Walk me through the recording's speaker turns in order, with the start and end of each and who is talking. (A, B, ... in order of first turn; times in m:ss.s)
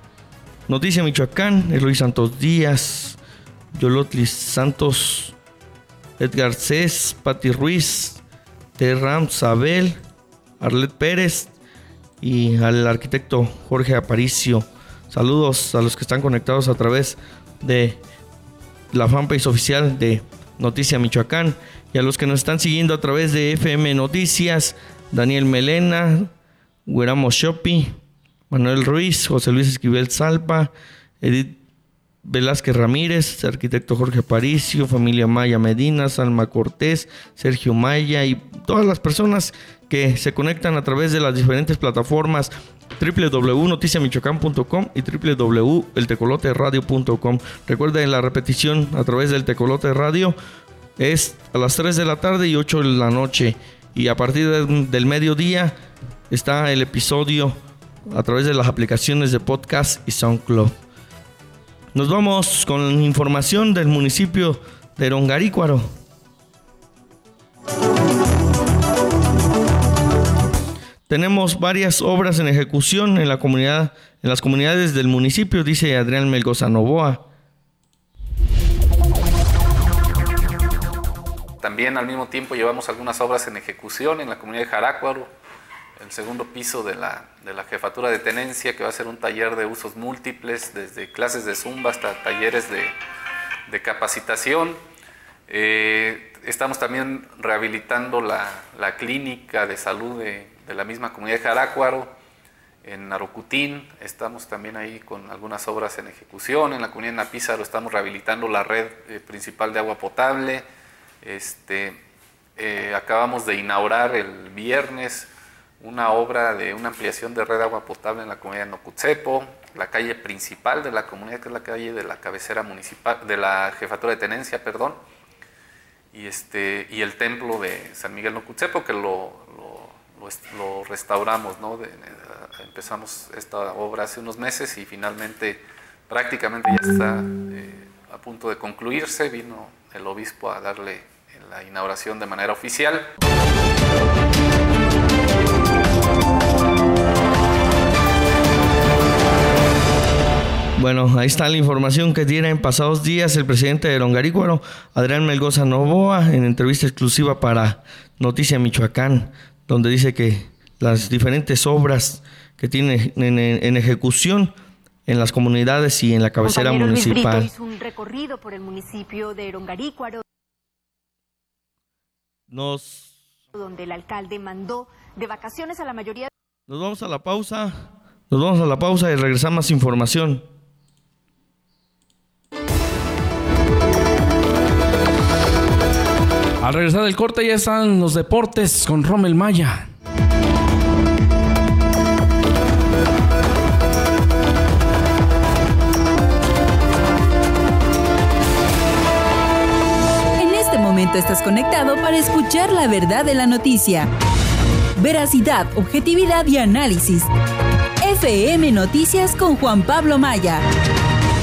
0:00.7-0:03.2 A
0:03.7-0:05.3 A
0:06.2-0:08.2 A
0:08.8-0:10.0 A
0:10.6-0:11.5 A
0:12.2-0:18.0 A
0:18.9-0:26.3 A
0:26.9-0:28.0 A
0:28.5-0:31.6 A
0:32.2-0:50.4 A
0:51.0-0:55.7 A
0:56.3-1:00.7 A
1:01.9-1:05.9 A
1:11.1-1:17.2 A
1:21.6-1:25.3 B
1:26.0-1:32.9 B
1:33.7-1:34.8 B
1:35.5-1:42.1 B
1:42.8-1:50.6 B
1:51.2-1:52.0 B
1:52.6-1:55.3 B
1:55.8-2:05.0 B
2:06.1-2:23.0 B
2:30.8-2:44.5 A
2:45.1-2:47.5 A
2:46.4-2:50.2 C
2:52.5-2:53.1 A
2:53.5-2:56.3 C
2:56.7-3:00.4 A
3:06.6-3:09.9 D
3:20.4-3:24.1 E
3:25.0-3:27.3 E
3:28.0-3:30.6 E